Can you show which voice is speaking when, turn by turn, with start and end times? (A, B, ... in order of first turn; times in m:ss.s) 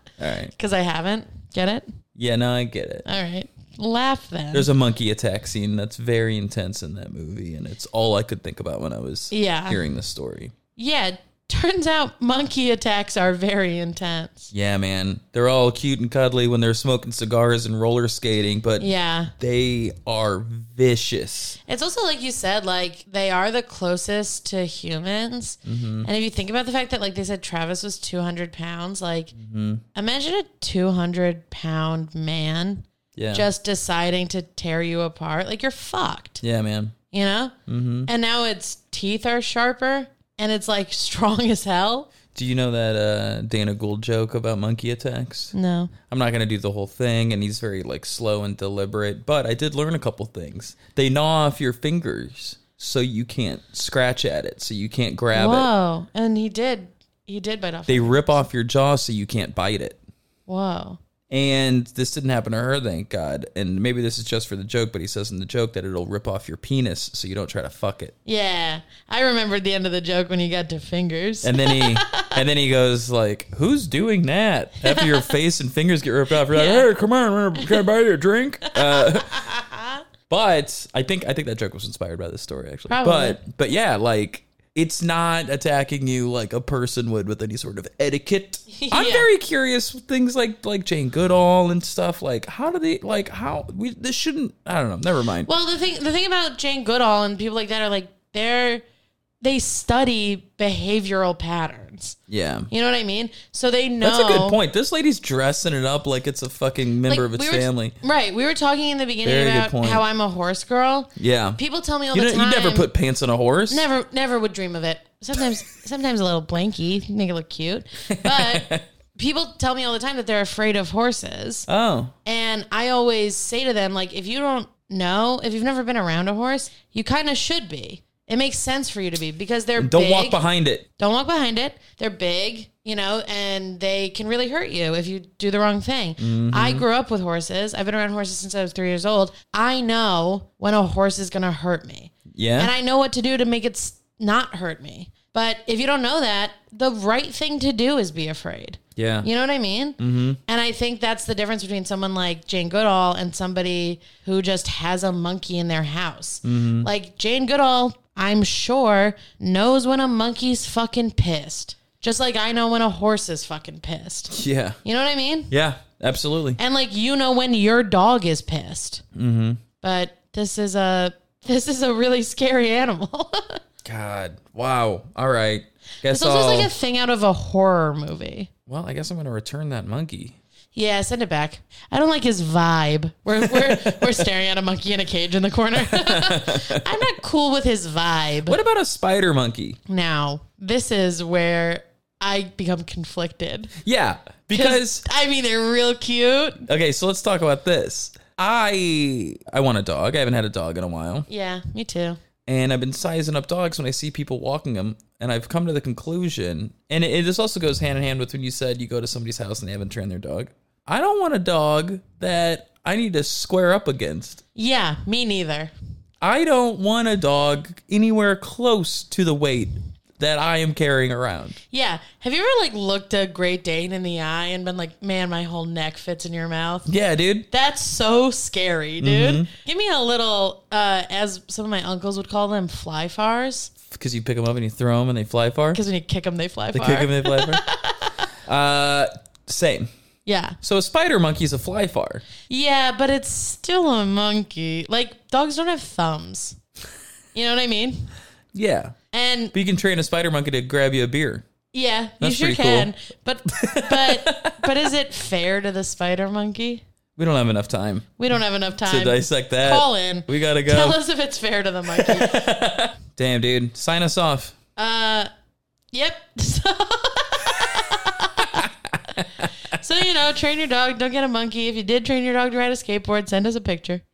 0:00.2-0:00.5 A
0:00.5-0:01.8 B
0:02.2-0:03.0 A
0:03.0-0:04.7 B
0:04.5-0:10.5 A
0:09.3-0:09.8 B
0:10.8-0:14.5 B
0:14.5-0:18.9 A
0:18.8-0:19.3 B
0:19.4-0:21.6 A
0:21.7-0:29.3 B
0:25.6-0:26.1 A
0:29.3-0:29.8 A
0:29.9-0:36.4 B
0:33.2-0:33.4 A
0:36.4-0:36.9 A
0:37.1-0:37.5 B
0:37.7-0:38.1 A
0:38.1-0:42.1 B
0:42.3-0:45.5 A
0:45.5-0:45.9 B
0:46.1-0:55.7 A
0:55.3-0:58.4 B
0:57.9-1:00.0 A
1:00.5-1:01.0 B
1:01.3-1:08.1 A
1:08.2-1:12.3 B
1:11.4-1:19.4 A
1:14.8-1:15.3 B
1:16.5-1:16.9 B
1:17.6-1:17.8 B
1:18.7-1:20.0 B
1:20.3-1:35.5 A
1:22.9-1:23.4 B
1:28.7-1:29.3 B
1:35.4-1:38.8 B
1:39.4-1:42.2 B
1:42.3-1:42.7 A
1:42.7-1:44.6 B
1:44.0-1:47.9 A
1:47.1-1:52.9 B
1:49.2-1:50.0 A
1:51.2-1:51.6 A
1:52.1-1:53.9 A
1:53.7-2:01.7 B
1:58.1-1:58.8 A
2:01.7-2:02.1 A
2:02.2-2:10.4 B
2:09.8-2:10.8 A
2:11.0-2:45.5 B
2:16.2-2:16.8 A
2:22.3-2:22.7 A
2:29.0-2:29.3 A
2:30.0-2:30.4 A
2:36.4-2:36.9 A
2:44.3-2:44.8 A
2:45.5-2:46.6 A
2:46.6-2:49.0 B
2:49.1-2:49.6 A
2:49.8-2:53.6 B
2:53.8-2:56.7 A
2:56.1-2:58.5 B
2:58.7-3:00.4 A
3:00.7-3:08.6 B
3:03.4-3:04.2 A
3:05.8-3:07.0 A
3:08.4-3:09.8 A
3:09.9-3:13.8 B
3:13.8-3:15.0 A
3:14.5-3:16.7 B
3:16.7-3:21.3 A
3:21.3-3:22.2 B
3:22.4-3:34.4 A
3:34.5-3:35.7 B
3:36.2-3:41.6 A
3:41.7-3:46.9 B
3:46.8-3:47.5 A
3:47.5-3:53.7 B
3:49.0-3:49.5 A
3:53.9-3:55.8 A
3:55.7-3:58.2 B
3:56.7-3:57.6 A
3:58.4-3:59.9 A
4:00.2-4:00.6 B
4:00.6-4:02.2 A
4:02.5-4:06.6 B
4:07.3-4:08.1 B
4:08.5-4:08.9 A
4:09.1-4:09.5 B
4:09.5-4:11.4 A
4:11.7-4:16.8 B
4:12.2-4:12.9 A
4:13.5-4:14.7 A
4:17.2-4:18.2 A
4:18.2-4:22.4 B
4:18.8-4:21.0 A
4:21.9-4:24.5 A
4:24.8-4:25.3 B
4:25.9-4:28.7 B
4:28.4-4:29.5 A
4:29.7-4:34.0 B